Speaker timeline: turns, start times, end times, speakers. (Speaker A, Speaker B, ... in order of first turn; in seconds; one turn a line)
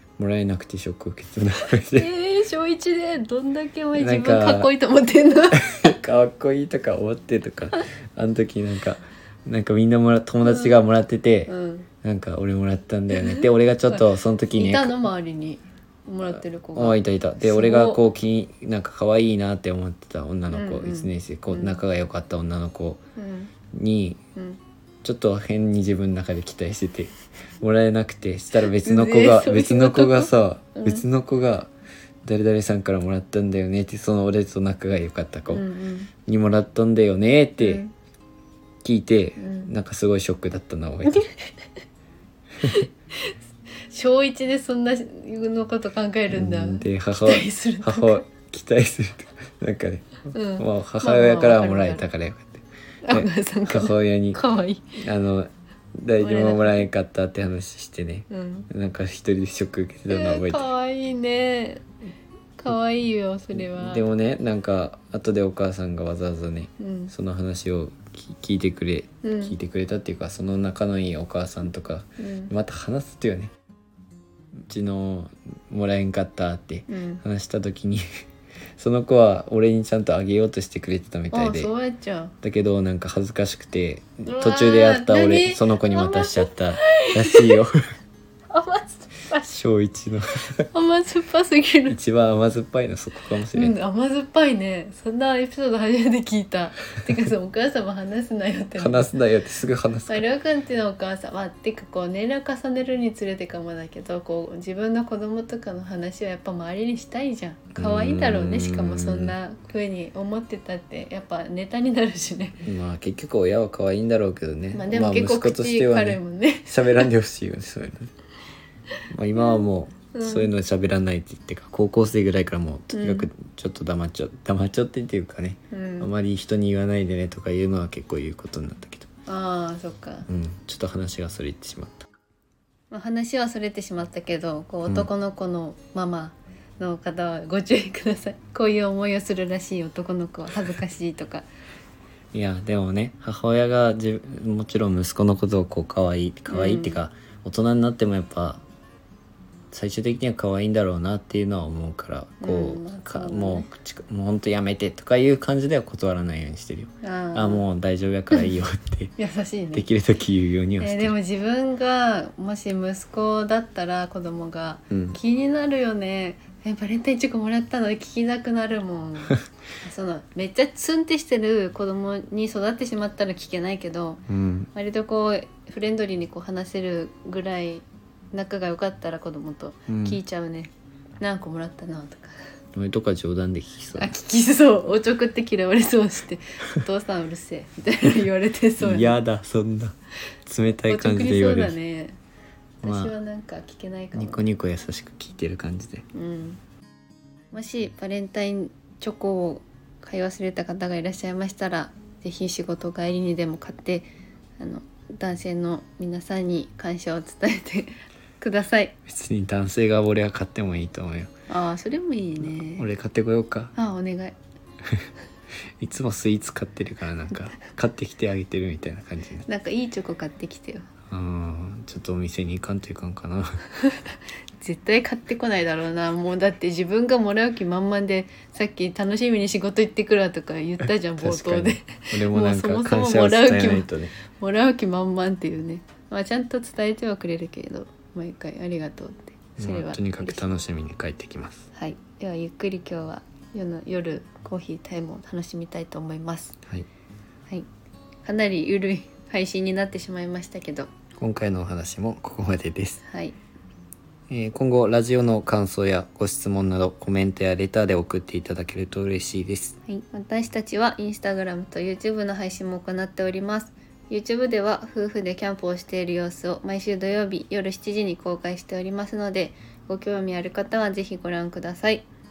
Speaker A: 0.2-2.1
Speaker B: 1.9-5.9
Speaker A: 3.9-4.7
Speaker A: 5.6-11.5
Speaker B: 10.4-10.8
Speaker B: 11.5-11.9
Speaker A: 12.0-14.9
Speaker B: 13.1-14.0
Speaker B: 14.5-18.0
Speaker A: 16.7-23.0
Speaker B: 20.5-21.8
Speaker B: 23.1-23.5
Speaker A: 23.7-24.2
Speaker A: 25.0-31.7
Speaker B: 28.8-31.0
Speaker A: 32.2-35.6
Speaker B: 35.5-36.1
Speaker A: 36.2-37.8
Speaker B: 37.6-37.9
Speaker A: 38.8-41.2
Speaker B: 39.4-39.7
Speaker B: 41.1-41.3
Speaker B: 42.6-43.3
Speaker B: 43.9-48.2
Speaker A: 46.3-54.4
Speaker B: 50.3-52.0
Speaker B: 53.0-54.9
Speaker A: 55.0-60.7
Speaker B: 56.2-56.9
Speaker B: 58.3-58.7
Speaker B: 60.1-61.8
Speaker B: 62.6-64.0
Speaker A: 63.5-73.5
Speaker B: 66.8-67.1
Speaker B: 69.2-69.5
Speaker B: 72.2-72.5
Speaker A: 74.6-78.0
Speaker B: 76.9-77.2
Speaker A: 78.8-81.7
Speaker B: 81.3-82.3
Speaker A: 82.4-87.8
Speaker B: 84.2-87.6
Speaker B: 88.5-89.5
Speaker A: 89.4-90.7
Speaker B: 90.6-92.0
Speaker A: 91.9-93.8
Speaker B: 93.5-99.1
Speaker A: 98.8-100.2
Speaker B: 100.1-112.6
Speaker A: 107.7-109.3
Speaker A: 112.6-118.1
Speaker B: 114.7-117.1
Speaker A: 119.1-129.1
Speaker B: 119.3-120.5
Speaker B: 122.9-123.3
Speaker B: 125.7-126.1
Speaker B: 129.2-130.3
Speaker A: 130.3-132.0
Speaker B: 132.9-141.4
Speaker A: 142.3-148.6
Speaker B: 146.5-147.0
Speaker A: 149.7-159.2
Speaker B: 152.4-153.7
Speaker B: 157.0-157.6
Speaker B: 159.2-159.8
Speaker A: 159.7-161.1
Speaker B: 160.8-182.3
Speaker A: 164.9-165.2
Speaker A: 174.3-174.7
Speaker A: 179.9-180.2
Speaker A: 182.7-184.1
Speaker B: 183.9-189.2
Speaker A: 188.8-189.9
Speaker A: 190.4-191.8
Speaker B: 190.9-192.2
Speaker A: 192.8-193.1
Speaker B: 192.8-194.4
Speaker A: 194.1-196.0
Speaker B: 196.1-196.6
Speaker B: 197.5-208.9
Speaker A: 209.1-211.3
Speaker B: 211.5-212.9
Speaker A: 212.4-213.7
Speaker B: 213.8-214.3
Speaker A: 215.8-219.4
Speaker B: 219.4-220.8
Speaker A: 221.1-223.6
Speaker B: 224.6-240.5
Speaker A: 231.2-234.1
Speaker A: 239.6-241.7
Speaker B: 241.7-246.6
Speaker B: 248.2-250.9
Speaker A: 251.2-253.0
Speaker B: 253.1-253.3
Speaker A: 254.3-259.8
Speaker B: 259.9-272.1